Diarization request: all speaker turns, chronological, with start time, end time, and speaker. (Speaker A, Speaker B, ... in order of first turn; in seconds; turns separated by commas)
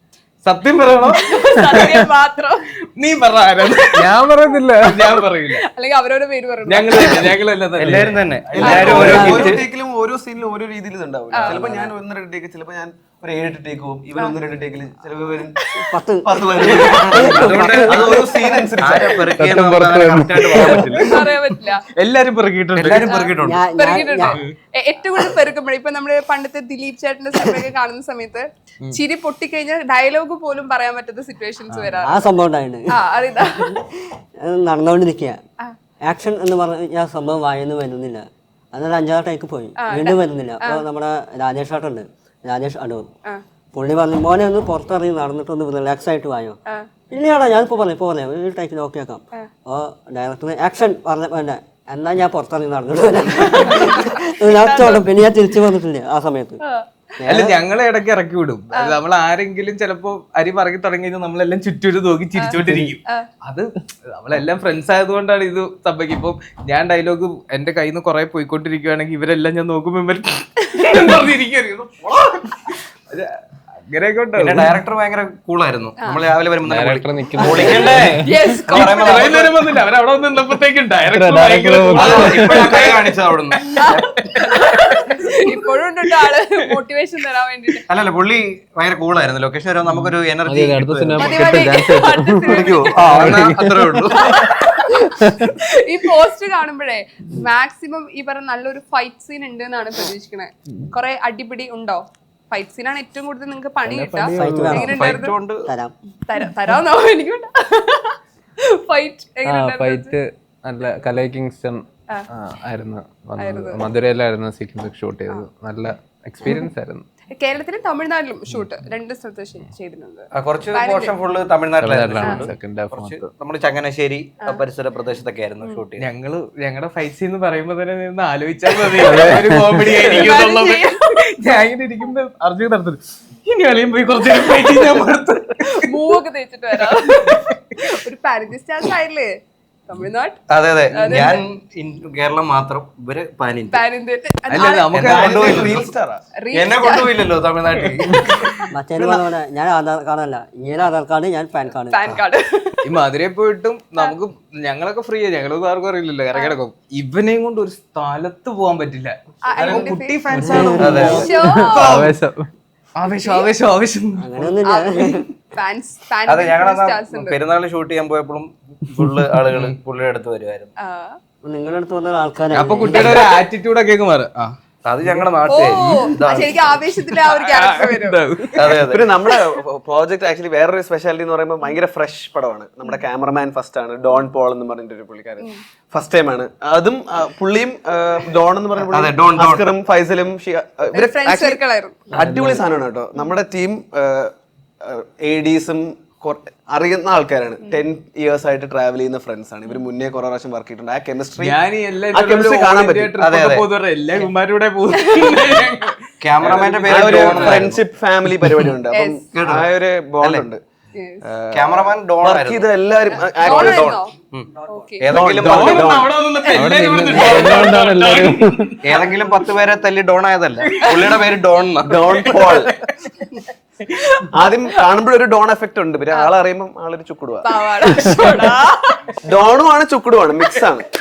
Speaker A: 0.5-1.6, Speaker B: 1.2-2.7, Speaker C: 1.6-2.0, Speaker A: 3.0-4.2, Speaker C: 3.9-5.2, Speaker A: 4.8-5.7, Speaker B: 5.7-7.3, Speaker A: 6.7-9.5, Speaker D: 7.8-9.6, Speaker E: 8.5-15.5, Speaker B: 8.6-9.4, Speaker F: 9.2-9.5, Speaker B: 11.3-11.7, Speaker F: 11.4-11.9, Speaker F: 15.9-18.5, Speaker E: 16.2-19.3, Speaker A: 16.7-17.9, Speaker D: 17.2-18.1, Speaker D: 18.8-21.2, Speaker C: 19.4-21.0, Speaker A: 20.6-23.3, Speaker B: 21.0-21.8, Speaker D: 22.7-23.6, Speaker B: 23.1-32.3, Speaker F: 23.4-24.4, Speaker A: 31.7-32.0, Speaker F: 32.0-35.4, Speaker B: 32.9-33.8, Speaker F: 36.0-43.1, Speaker B: 39.8-40.8, Speaker F: 43.7-46.6, Speaker F: 47.1-56.6, Speaker B: 53.6-55.1, Speaker F: 57.2-57.6, Speaker A: 57.2-74.7, Speaker B: 62.4-63.3, Speaker D: 74.4-79.6, Speaker C: 76.7-78.2, Speaker B: 77.4-79.3, Speaker A: 78.7-82.9, Speaker C: 81.1-82.7, Speaker D: 81.9-84.1, Speaker A: 83.6-85.6, Speaker B: 83.8-87.8, Speaker D: 87.9-94.5, Speaker C: 90.5-94.2, Speaker B: 91.2-93.3, Speaker B: 94.1-105.3, Speaker C: 94.9-95.6, Speaker C: 103.9-104.9, Speaker F: 104.3-105.0, Speaker D: 104.8-105.7, Speaker F: 105.7-105.9, Speaker B: 106.3-110.1, Speaker C: 109.4-117.0, Speaker B: 113.4-113.8, Speaker B: 116.4-116.7, Speaker B: 117.3-121.1, Speaker D: 120.3-126.1, Speaker C: 121.8-123.3, Speaker B: 122.2-122.5, Speaker A: 126.0-135.9, Speaker C: 129.0-130.0, Speaker B: 130.0-131.1, Speaker B: 135.8-139.3, Speaker A: 136.8-138.0, Speaker B: 139.9-141.4, Speaker D: 140.5-143.8, Speaker B: 143.7-145.1, Speaker A: 144.5-145.9, Speaker D: 144.9-145.9, Speaker E: 144.9-146.2, Speaker B: 146.4-147.2, Speaker D: 146.5-148.4, Speaker B: 147.8-148.3, Speaker F: 148.7-152.1, Speaker E: 148.9-149.2, Speaker B: 151.9-152.8, Speaker A: 152.8-162.1, Speaker B: 159.5-162.1, Speaker F: 160.3-161.2, Speaker D: 160.8-161.2, Speaker C: 161.2-162.5, Speaker A: 163.0-164.4, Speaker B: 163.1-163.5, Speaker F: 164.2-165.2, Speaker B: 164.6-167.4, Speaker D: 166.2-170.7, Speaker B: 170.8-171.2, Speaker F: 171.4-173.3, Speaker A: 172.5-174.6, Speaker D: 174.8-176.8, Speaker B: 175.5-178.2, Speaker A: 177.1-178.8, Speaker D: 178.6-179.1, Speaker E: 178.6-191.6, Speaker D: 188.9-189.7, Speaker B: 190.9-192.1, Speaker E: 192.1-201.6, Speaker D: 192.2-192.5, Speaker A: 201.4-207.8, Speaker E: 202.1-203.1, Speaker D: 203.2-203.7, Speaker B: 205.1-205.5, Speaker D: 206.2-207.8, Speaker E: 206.4-210.6, Speaker B: 208.9-209.2, Speaker D: 209.3-209.7, Speaker B: 210.9-211.2, Speaker E: 211.2-214.0, Speaker D: 211.5-212.7, Speaker B: 213.1-214.1, Speaker D: 213.4-214.5, Speaker F: 214.5-215.0, Speaker B: 214.7-215.1, Speaker D: 215.0-216.1, Speaker E: 215.0-216.1, Speaker A: 215.2-219.0, Speaker B: 216.4-217.2, Speaker C: 216.5-218.8, Speaker D: 218.8-222.1, Speaker A: 220.6-221.2, Speaker E: 221.8-222.7, Speaker A: 221.9-224.3, Speaker E: 224.3-227.5, Speaker B: 227.4-229.2, Speaker A: 228.1-228.4, Speaker E: 229.2-230.9